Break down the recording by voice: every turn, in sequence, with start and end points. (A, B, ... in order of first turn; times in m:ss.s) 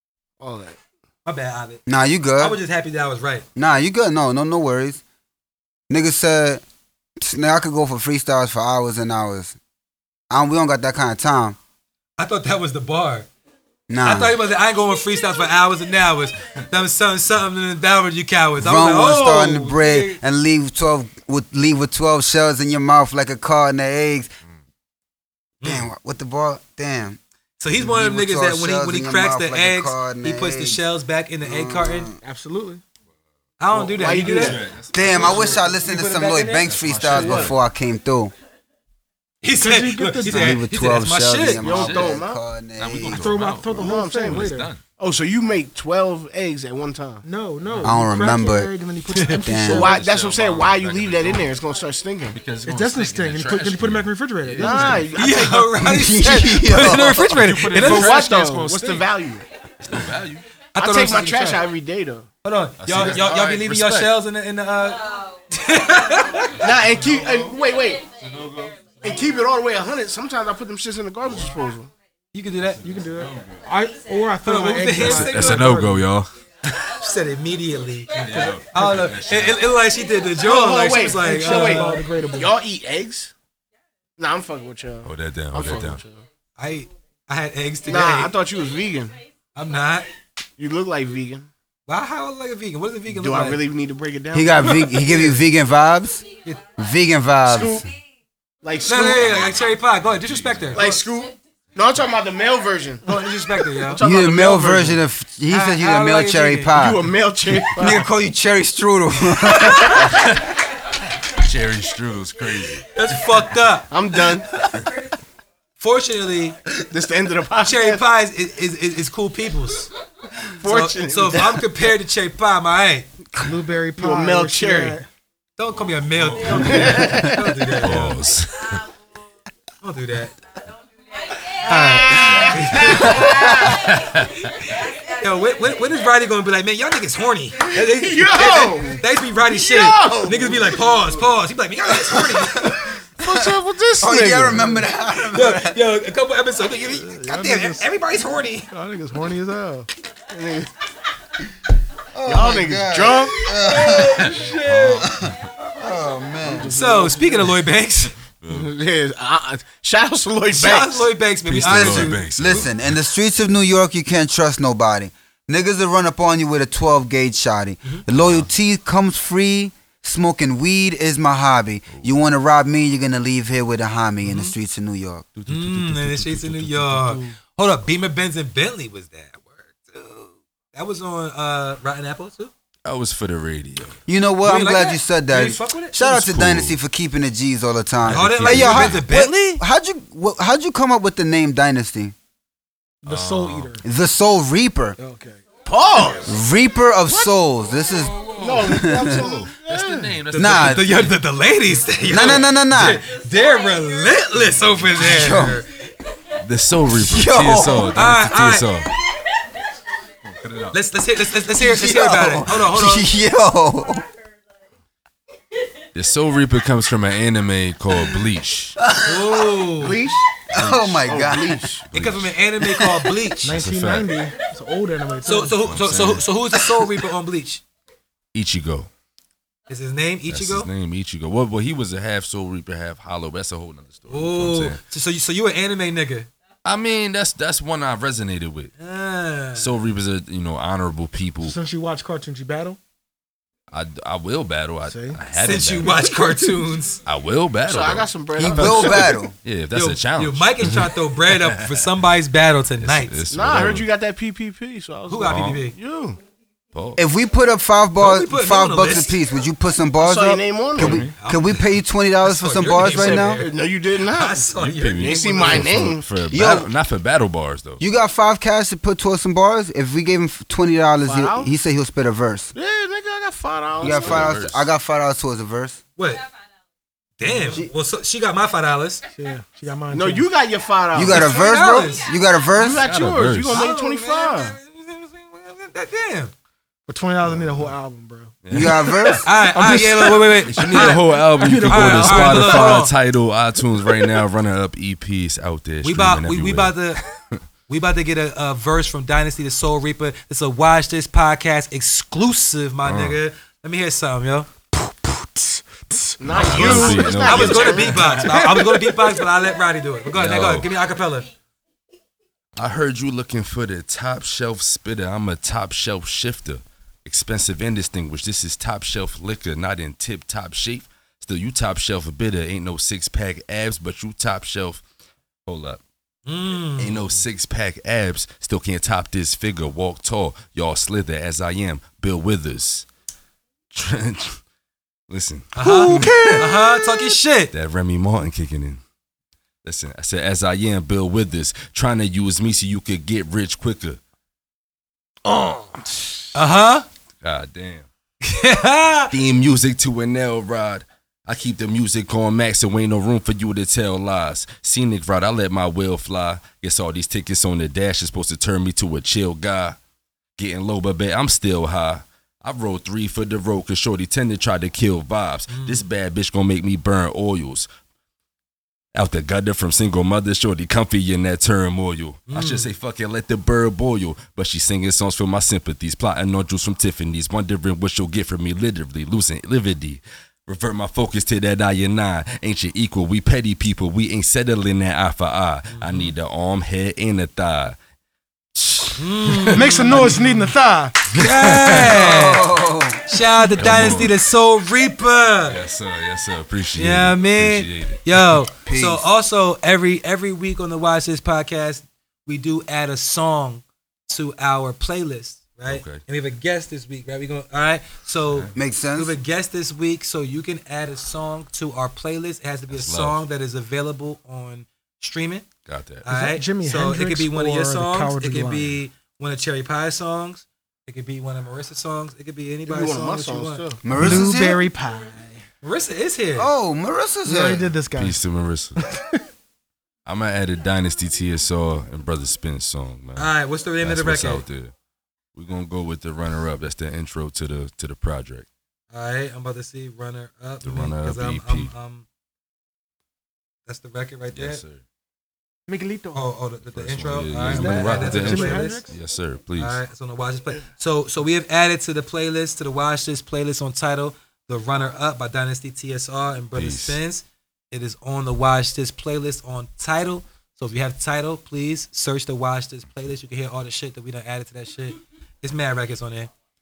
0:00.4-0:00.8 A
0:01.2-0:01.8 B
0:01.8-0:02.6 C
0:02.4-0:03.4 B
0:03.6-0:05.0 C
0:05.9-0:06.6 C
0:07.2-0:09.6 C
0:10.3-0:11.6 C
0:12.2-0:13.3 B
0:13.9-0:14.4 C
0:14.0-0:20.2 B
0:18.6-0:24.3 C
0:25.6-0:25.9 B
0:25.6-0:27.2 C
0:27.6-0:32.1 B
0:27.8-0:30.8 C
0:31.4-0:32.2 C
0:32.2-0:32.8 D
0:33.6-0:37.4 B
0:33.7-0:34.6 A
0:34.2-0:35.7 E
0:34.9-0:38.3 C
0:36.7-0:37.6 E
0:37.1-0:37.5 A
0:39.4-0:41.6 B
0:39.5-0:40.6 D
0:40.2-0:43.2 C
0:41.6-0:42.4 A
0:41.6-0:42.2 E
0:42.8-0:44.8 E
0:43.1-0:44.7 D
0:43.8-0:47.2 A
0:47.2-0:50.0 D
0:47.8-0:48.7 C
0:49.1-0:49.4 B
0:49.4-0:49.9 C
0:49.7-0:52.4 A
0:49.7-0:51.5 E
0:52.3-0:55.2 E
0:52.6-0:55.1 D
0:54.6-0:56.7 A
0:55.2-0:58.2 B
0:55.8-0:57.3 C
0:56.9-0:59.1 E
0:57.7-0:59.4 A
0:59.8-1:00.4 E
1:00.8-1:01.7 B
1:00.8-1:02.3 A
1:02.4-1:06.7 B
1:02.8-1:04.1 E
1:06.6-1:08.0 A
1:07.0-1:07.5 E
1:08.2-1:08.9 E
1:09.0-1:11.9 A
1:12.3-1:12.8 B
1:12.8-1:16.0 D
1:13.1-1:13.6 E
1:14.4-1:15.8 B
1:15.0-1:16.3 E
1:16.9-1:18.2 B
1:18.1-1:19.6 E
1:18.3-1:18.6 D
1:18.7-1:22.0 B
1:20.4-1:23.3 A
1:21.1-1:22.5 D
1:24.2-1:26.2 A
1:25.0-1:26.0 E
1:26.6-1:28.3 B
1:27.9-1:29.2 A
1:29.5-1:30.1 B
1:30.6-1:31.5 A
1:31.9-1:33.6 B
1:33.1-1:35.1 A
1:34.3-1:36.2 C
1:34.9-1:35.3 B
1:36.8-1:37.8 C
1:37.4-1:37.8 A
1:38.6-1:39.4 A
1:38.8-1:41.0 B
1:39.2-1:40.8 E
1:40.7-1:43.2 A
1:43.0-1:44.0 B
1:43.8-1:45.0 A
1:44.0-1:47.1 C
1:45.5-1:46.7 B
1:46.7-1:48.1 A
1:47.7-1:50.1 C
1:49.5-1:50.0 B
1:50.1-1:50.5 E
1:51.3-1:53.0 E
1:52.9-1:53.9 B
1:53.9-1:54.5 A
1:55.8-1:56.6 B
1:56.9-1:58.0 A
1:57.6-1:59.9 B
2:00.6-2:01.6 A
2:00.6-2:03.1 B
2:03.3-2:05.1 D
2:04.0-2:05.0 A
2:05.6-2:08.2 B
2:06.1-2:07.2 E
2:06.5-2:07.4 A
2:07.8-2:08.8 E
2:09.8-2:10.3 B
2:11.6-2:14.0 B
2:11.7-2:13.6 A
2:13.1-2:13.8 C
2:13.6-2:14.4 E
2:14.6-2:22.8 B
2:17.6-2:20.8 A
2:23.2-2:24.9 A
2:24.0-2:25.8 C
2:25.3-2:28.7 B
2:27.1-2:27.8 D
2:28.7-2:29.9 D
2:30.3-2:30.7 A
2:32.1-2:34.4 C
2:32.2-2:33.4 A
2:33.5-2:35.1 B
2:34.2-2:35.4 E
2:35.0-2:36.7 C
2:36.4-2:37.6 A
2:36.7-2:38.1 B
2:38.4-2:38.7 E
2:38.5-2:41.1 A
2:40.5-2:42.2 B
2:41.4-2:42.9 E
2:41.6-2:55.3 C
2:48.1-2:48.5 E
2:54.2-2:54.5 B
2:55.4-2:57.4 E
2:55.5-3:02.5 B
3:02.8-3:04.0 E
3:04.1-3:12.1 C
3:04.4-3:06.3 B
3:06.2-3:06.8 E
3:08.0-3:09.0 E
3:08.1-3:09.6 B
3:13.0-3:13.8 D
3:13.1-3:13.7 E
3:13.8-3:15.0 C
3:15.0-3:15.4 D
3:15.6-3:16.4 A
3:16.2-3:19.2 C
3:18.0-3:21.2 E
3:18.4-3:20.1 A
3:20.3-3:25.7 B
3:20.4-3:20.8 C
3:22.1-3:23.0 C
3:25.0-3:25.6 C
3:26.4-3:28.9 E
3:26.9-3:28.1 C
3:27.9-3:28.7 B
3:30.4-3:30.8 E
3:30.7-3:33.1 B
3:31.5-3:34.0 C
3:35.9-3:38.8 E
3:38.8-3:39.4 C
3:39.0-3:40.1 B
3:39.8-3:41.8 A
3:40.5-3:41.6 C
3:40.6-3:40.9 E
3:41.8-3:42.3 E
3:41.9-3:43.6 B
3:42.6-3:43.3 C
3:43.4-3:45.6 D
3:43.4-3:44.2 E
3:45.2-3:47.6 B
3:45.6-3:46.2 E
3:48.3-3:48.9 E
3:49.7-3:50.7 B
3:50.3-3:54.8 E
3:54.1-3:56.3 B
3:56.6-3:58.7 E
3:58.8-3:59.7 B
3:59.6-4:01.6 E
4:01.4-4:02.8 D
4:03.7-4:06.0 E
4:04.8-4:05.2 D
4:05.3-4:07.0 B
4:07.0-4:10.9 E
4:07.6-4:09.2 A
4:08.4-4:09.3 C
4:09.7-4:13.2 B
4:12.8-4:13.9 E
4:13.3-4:16.2 A
4:15.1-4:15.8 B
4:15.2-4:15.6 E
4:16.7-4:17.0 E
4:17.0-4:23.4 C
4:18.0-4:19.2 B
4:20.0-4:21.0 A
4:20.8-4:21.1 E
4:21.2-4:21.6 B
4:22.2-4:23.6 B
4:22.6-4:24.5 A
4:24.1-4:25.7 B
4:24.6-4:27.8 E
4:25.0-4:26.1 A
4:26.3-4:26.7 C
4:27.8-4:32.5 C
4:31.0-4:31.5 A
4:32.5-4:34.3 A
4:33.8-4:34.7 E
4:33.8-4:35.8 C
4:36.0-4:36.2 B
4:37.2-4:39.0 B
4:37.3-4:37.7 C
4:39.2-4:40.3 D
4:39.9-4:41.3 A
4:40.9-4:42.8 C
4:41.0-4:42.1 B
4:42.5-4:44.6 A
4:42.7-4:43.6 E
4:43.5-4:46.3 B
4:46.9-4:52.9 D
4:47.2-4:47.7 E
4:48.4-4:49.2 E
4:48.5-4:49.2 C
4:49.2-4:51.1 B
4:50.3-4:57.4 E
4:51.7-4:52.9 B
4:55.8-4:57.0 B
4:57.7-5:04.5 B
5:02.8-5:03.2 E
5:04.7-5:07.1 D
5:06.2-5:08.3 A
5:06.3-5:08.3 E
5:06.4-5:11.3 B
5:08.4-5:09.0 D
5:10.1-5:10.7 E
5:12.6-5:24.8 E
5:25.4-5:25.8 E
5:26.2-5:27.2 B
5:26.8-5:32.8 E
5:33.7-5:34.4 E
5:35.1-5:36.4 E
5:35.5-5:37.5 B
5:35.6-5:37.1 D
5:37.5-5:38.8 E
5:39.6-5:44.0 E
5:45.3-5:45.8 D
5:46.3-5:46.8 B
5:47.2-5:47.9 E
5:48.2-5:49.1 B
5:49.1-5:59.8 E
6:00.4-6:07.7 E
6:05.5-6:05.8 B
6:09.0-6:27.8 E
6:12.3-6:12.7 B
6:25.7-6:26.1 B
6:28.5-6:30.2 E
6:29.0-6:30.2 B
6:29.5-6:31.7 D
6:31.1-6:32.4 B
6:31.2-6:31.9 E
6:31.8-6:33.1 C
6:33.1-6:35.6 B
6:33.6-6:34.1 E
6:35.4-6:38.4 E
6:36.8-6:55.5 B
6:38.6-6:39.0 C
6:45.7-6:46.0 E
6:48.5-6:49.2 C
6:52.7-6:53.2 E
6:55.6-6:56.1 E
6:56.0-7:03.7 B
6:56.1-6:58.8 D
7:02.6-7:03.9 A
7:03.8-7:04.6 C
7:03.9-7:05.4 D
7:03.9-7:04.2 E
7:05.6-7:06.5 B
7:06.4-7:07.7 C
7:07.2-7:08.2 D
7:07.9-7:08.8 E
7:08.8-7:09.2 D
7:10.0-7:14.7 E
7:13.2-7:14.4 B
7:15.3-7:18.5 E
7:18.9-7:22.0 B
7:20.6-7:21.7 E
7:23.7-7:24.6 B
7:24.3-7:24.8 E
7:25.7-7:26.3 D
7:26.1-7:28.8 B
7:26.6-7:29.8 E
7:27.4-7:28.9 D
7:29.6-7:46.3 B
7:36.5-7:37.0 E